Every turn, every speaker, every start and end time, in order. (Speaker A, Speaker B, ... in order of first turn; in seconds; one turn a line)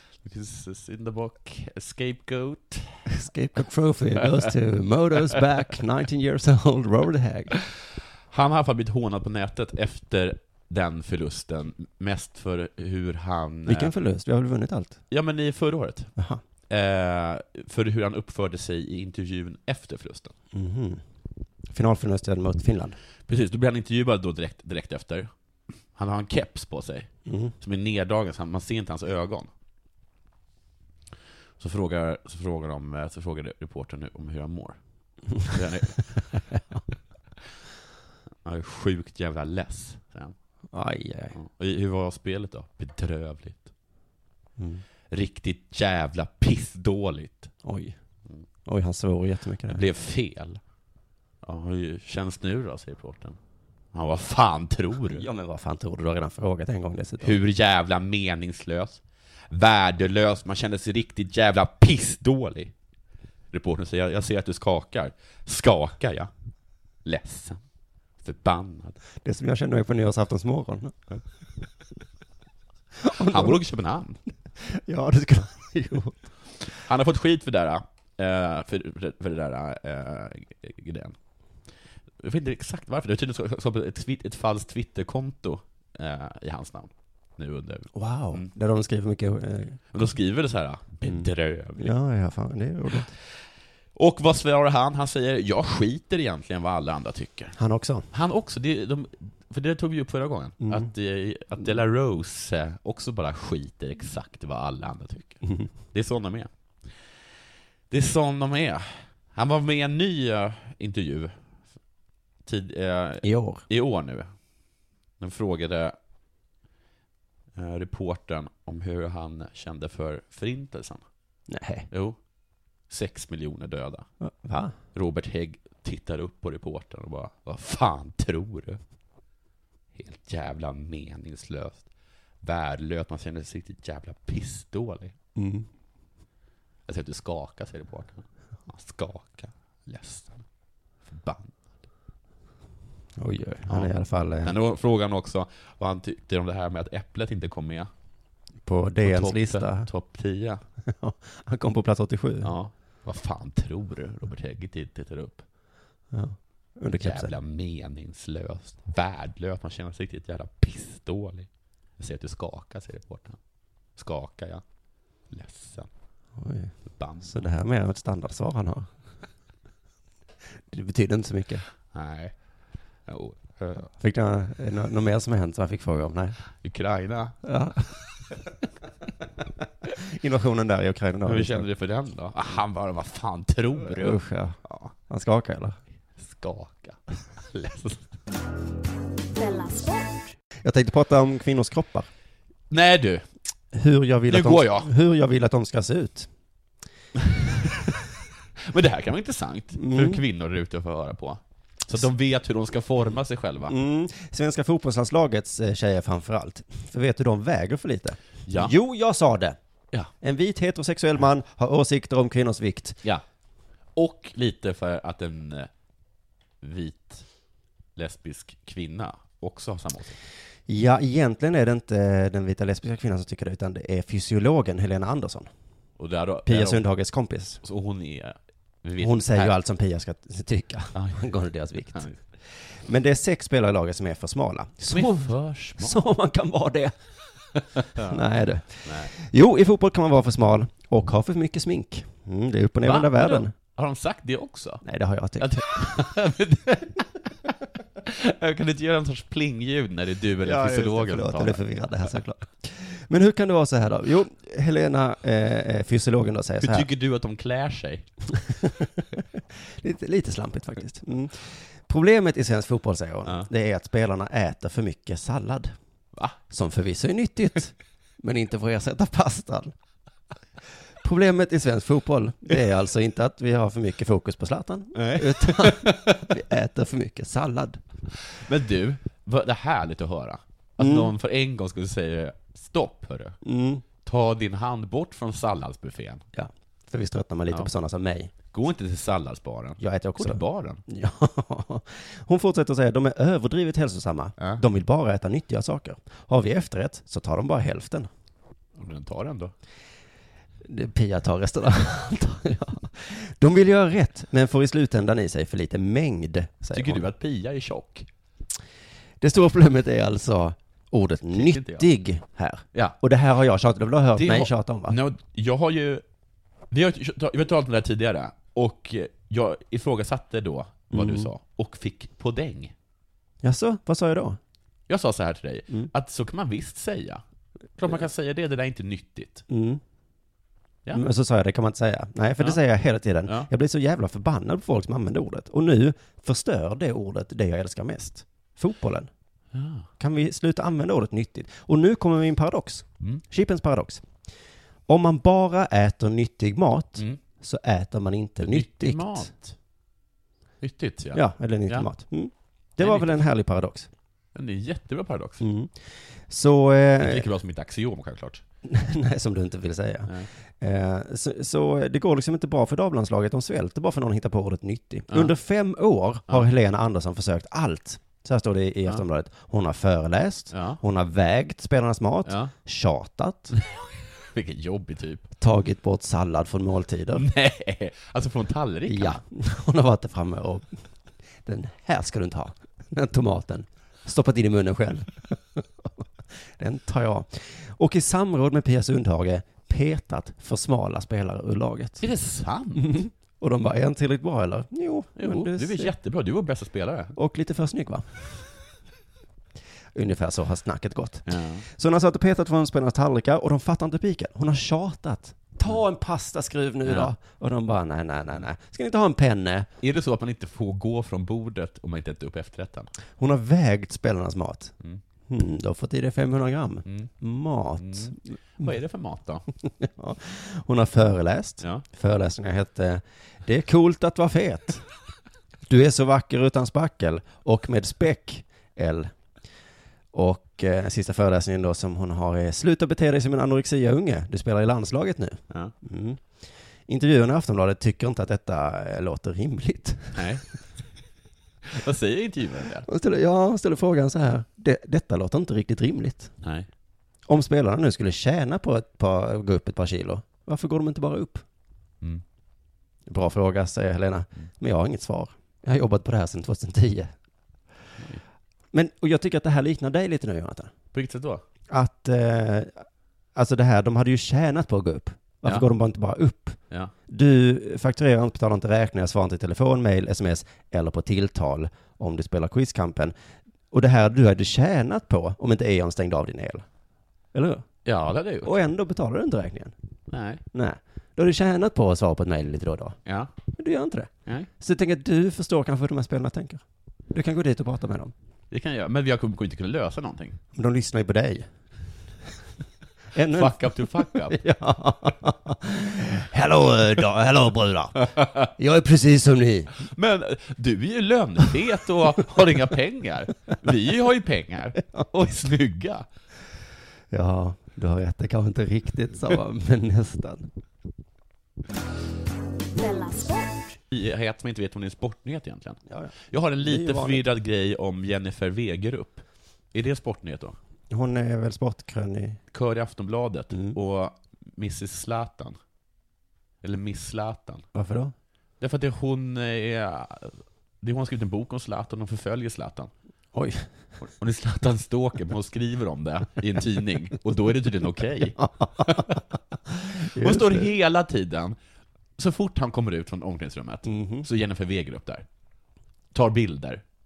Speaker A: 0.2-3.1
Speaker B: 3.1-7.6
Speaker A: 8.3-13.9
Speaker B: 13.7-15.0
Speaker A: 15.1-16.1
Speaker A: 16.7-20.3
Speaker B: 20.5-21.0
Speaker B: 21.7-23.0
Speaker A: 23.3-25.3
Speaker A: 25.9-29.5
Speaker B: 27.3-27.5
Speaker A: 31.6-34.8
Speaker A: 35.4-36.4
Speaker A: 38.5-40.3
Speaker B: 40.7-41.4
Speaker A: 41.3-43.7
Speaker B: 44.6-44.8
Speaker A: 45.1-47.5
Speaker B: 47.6-48.0
Speaker B: 48.6-49.8
Speaker A: 49.7-50.6
Speaker A: 51.4-53.4
Speaker A: 53.9-55.3
Speaker B: 55.1-57.4
Speaker A: 57.2-62.7
Speaker A: 63.5-66.3
Speaker A: 67.0-67.6
Speaker A: 68.2-69.0
Speaker B: 69.2-71.0
Speaker B: 73.0-73.6
Speaker A: 73.1-74.2
Speaker B: 74.6-76.3
Speaker A: 76.7-81.2
Speaker A: 82.2-88.5
Speaker B: 87.9-89.8
Speaker A: 89.9-91.9
Speaker B: 91.0-93.1
Speaker A: 94.0-97.6
Speaker B: 97.6-98.1
Speaker A: 98.1-107.1
Speaker B: 100.6-100.9
Speaker A: 107.9-111.4
Speaker A: 112.5-114.4
Speaker B: 113.2-113.6
Speaker A: 115.2-116.0
Speaker A: 117.5-121.0
Speaker B: 121.5-121.9
Speaker A: 121.9-122.2
Speaker A: 122.9-124.1
Speaker B: 124.2-124.7
Speaker A: 124.9-128.8
Speaker A: 129.9-131.9
Speaker A: 132.4-135.2
Speaker B: 135.4-135.7
Speaker A: 136.9-140.4
Speaker A: 141.1-141.6
Speaker B: 143.2-144.6
Speaker A: 144.4-147.9
Speaker B: 148.7-149.9
Speaker A: 149.0-150.6
Speaker B: 150.8-152.5
Speaker A: 152.4-155.4
Speaker B: 156.1-157.3
Speaker A: 156.9-161.5
Speaker A: 162.0-163.4
Speaker A: 164.0-164.6
Speaker A: 165.3-165.9
Speaker B: 166.4-168.9
Speaker A: 166.9-167.4
Speaker B: 170.7-171.7
Speaker A: 171.9-172.3
Speaker A: 173.1-173.9
Speaker B: 173.9-176.4
Speaker A: 176.6-177.4
Speaker B: 177.4-177.8
Speaker B: 180.0-181.7
Speaker A: 181.2-184.9
Speaker B: 183.8-184.6
Speaker B: 185.1-185.8
Speaker A: 186.2-188.1
Speaker C: 189.3-190.3
Speaker B: 190.6-192.1
Speaker A: 192.7-193.3
Speaker B: 193.7-196.3
Speaker A: 194.3-194.9
Speaker A: 198.6-203.8
Speaker B: 199.8-200.2
Speaker B: 203.7-209.6
Speaker A: 208.5-208.7
Speaker B: 210.2-213.0
Speaker A: 213.9-215.7
Speaker A: 216.6-217.3
Speaker A: 218.0-220.2
Speaker B: 220.7-225.5
Speaker A: 226.0-226.8
Speaker B: 226.5-227.6
Speaker A: 227.6-229.6
Speaker B: 229.0-236.9
Speaker A: 230.9-231.3
Speaker A: 234.9-236.0
Speaker A: 237.8-238.2
Speaker B: 237.9-243.5
Speaker A: 238.8-239.1
Speaker A: 242.8-244.8
Speaker B: 244.8-246.0
Speaker A: 245.4-247.1
Speaker A: 248.0-251.6
Speaker B: 250.4-256.9
Speaker A: 256.6-258.1
Speaker B: 258.4-265.7
Speaker B: 266.5-269.7
Speaker B: 271.0-277.8
Speaker A: 274.9-276.3
Speaker A: 278.2-283.4
Speaker B: 280.8-281.1
Speaker B: 283.4-283.8
Speaker A: 284.0-286.2
Speaker B: 286.3-288.3
Speaker A: 288.5-290.8
Speaker B: 289.8-298.1
Speaker A: 298.8-299.5
Speaker B: 300.6-307.1
Speaker A: 306.7-308.1
Speaker B: 309.2-315.0
Speaker A: 311.3-311.9
Speaker A: 314.2-316.0
Speaker A: 316.7-322.7
Speaker B: 320.9-321.3
Speaker B: 323.4-324.4
Speaker A: 324.9-327.2
Speaker A: 327.8-329.4
Speaker B: 329.5-329.8
Speaker B: 330.9-339.1
Speaker A: 339.5-339.9
Speaker B: 340.0-344.0
Speaker B: 344.9-349.3
Speaker A: 348.4-349.6
Speaker A: 350.6-351.9
Speaker B: 351.1-353.9
Speaker A: 352.8-353.2
Speaker A: 354.4-355.5
Speaker B: 355.4-357.3
Speaker A: 357.0-358.4
Speaker B: 358.6-373.5
Speaker A: 370.5-370.8
Speaker A: 372.3-372.5
Speaker A: 373.6-375.3
Speaker B: 375.4-377.3
Speaker A: 377.1-379.2
Speaker B: 378.9-380.9
Speaker B: 381.4-386.0
Speaker B: 386.6-392.1
Speaker A: 392.0-393.0
Speaker B: 392.8-395.9
Speaker A: 395.2-397.2
Speaker B: 397.2-398.2
Speaker B: 399.9-409.7
Speaker A: 401.3-401.7
Speaker A: 406.9-407.1
Speaker A: 409.8-412.9
Speaker B: 413.2-414.7
Speaker B: 415.3-418.2
Speaker A: 416.9-417.1
Speaker A: 417.8-419.5
Speaker B: 419.6-424.9
Speaker B: 425.7-429.1
Speaker B: 430.1-436.2
Speaker B: 436.9-440.2
Speaker A: 440.1-440.5
Speaker A: 441.7-442.9
Speaker B: 442.9-446.3
Speaker A: 446.4-446.7
Speaker B: 447.3-451.4
Speaker B: 453.1-457.1
Speaker B: 458.7-460.7
Speaker A: 460.9-461.4
Speaker B: 461.7-473.1
Speaker B: 473.7-476.7
Speaker B: 477.3-477.7
Speaker A: 477.9-478.6
Speaker B: 478.4-479.8
Speaker A: 480.1-480.4
Speaker B: 480.5-483.0
Speaker A: 483.1-483.3
Speaker B: 483.5-488.1
Speaker A: 488.5-490.4
Speaker B: 490.6-491.5
Speaker B: 493.1-499.8
Speaker A: 493.3-494.4
Speaker A: 498.1-498.5
Speaker A: 499.8-506.1
Speaker B: 507.1-510.5
Speaker C: 512.7-513.8
Speaker A: 513.9-520.6
Speaker B: 515.9-517.3
Speaker B: 520.9-522.4
Speaker A: 522.5-525.6
Speaker A: 526.6-527.6
Speaker B: 527.7-528.1
Speaker A: 528.6-532.9
Speaker B: 533.3-533.7
Speaker A: 534.0-539.2
Speaker B: 538.4-539.2
Speaker A: 539.8-541.6
Speaker B: 539.9-540.7
Speaker A: 542.2-545.2
Speaker B: 543.9-544.3
Speaker A: 546.1-546.8